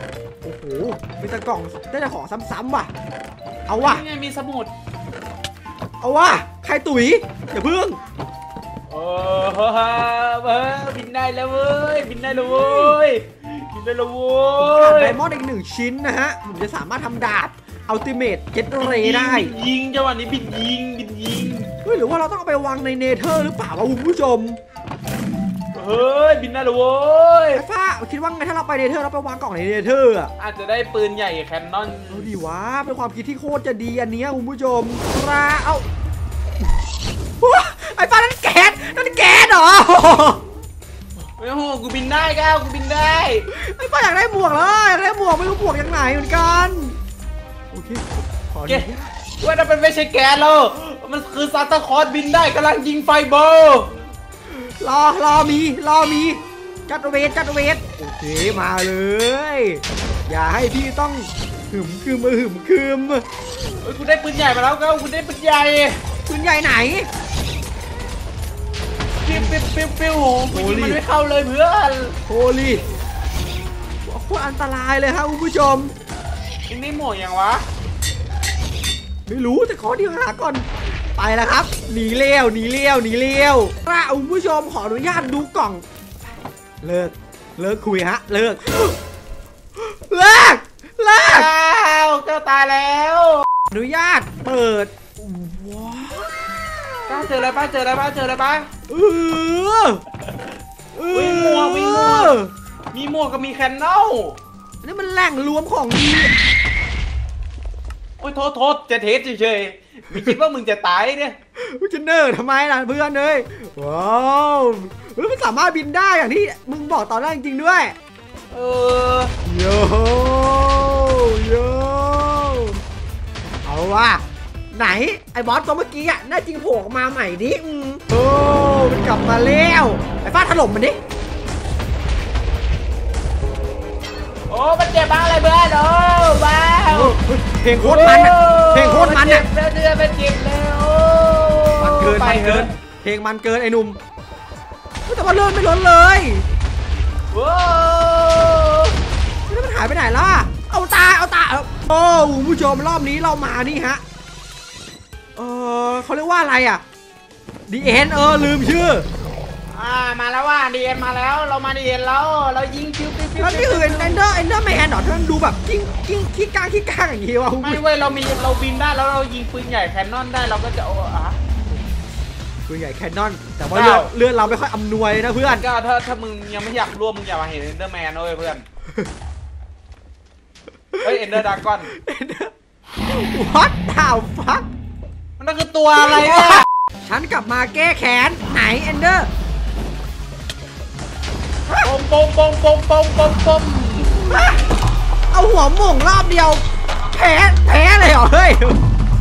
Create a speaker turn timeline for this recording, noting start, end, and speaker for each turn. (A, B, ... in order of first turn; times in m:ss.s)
0:00.4-0:02.9 A
0:03.7-0:04.0 A
0:03.7-0:04.7 B
0:06.0-0:08.0 A
0:08.9-0:15.2 B
0:12.2-0:13.0 A
0:14.6-0:19.5 A
0:18.8-0:21.7 B
0:21.8-0:24.6 A
0:25.7-0:27.6 B
0:27.5-0:30.3 A
0:30.4-0:32.3 B
0:32.1-0:35.9 A
0:37.4-0:40.4 A
0:41.2-0:43.5 B
0:43.5-0:47.0 A
0:47.7-0:49.1 A
0:49.4-0:53.9 B
0:54.5-1:03.2 A
1:03.8-1:06.0 B
1:06.3-1:07.1 A
1:09.2-1:12.2 B
1:09.3-1:09.5 A
1:10.5-1:11.0 A
1:12.3-1:12.8 A
1:14.0-1:15.9 A
1:16.7-1:17.6 B
1:19.3-1:25.8 A
1:26.8-1:29.0 A
1:29.8-1:31.5 A
1:31.2-1:33.4 B
1:33.7-1:37.2 A
1:37.1-1:38.7 B
1:38.9-1:40.0 A
1:40.9-1:42.5 A
1:41.1-1:42.4 B
1:42.9-1:44.4 B
1:44.8-1:46.3 A
1:48.2-1:51.4 B
1:51.6-1:57.9 A
1:58.5-1:59.3 B
1:59.4-2:02.8 A
2:03.6-2:11.0 A
2:14.5-2:17.2 B
2:16.9-2:19.4 A
2:17.7-2:22.7 B
2:21.8-2:24.0 A
2:25.0-2:26.4 A
2:27.3-2:29.0 B
2:29.5-2:34.0 A
2:35.4-2:36.8 A
2:37.7-2:39.1 A
2:39.7-2:44.2 B
2:43.4-2:47.8 A
2:47.6-2:51.4 B
2:52.7-2:55.6 A
2:53.7-2:54.1 B
2:55.4-2:58.6 B
3:01.0-3:01.9 B
3:01.9-3:02.5 A
3:03.1-3:04.7 A
3:05.4-3:06.6 B
3:06.0-3:09.3 A
3:11.7-3:14.4 B
3:14.3-3:14.6 A
3:15.3-3:18.8 A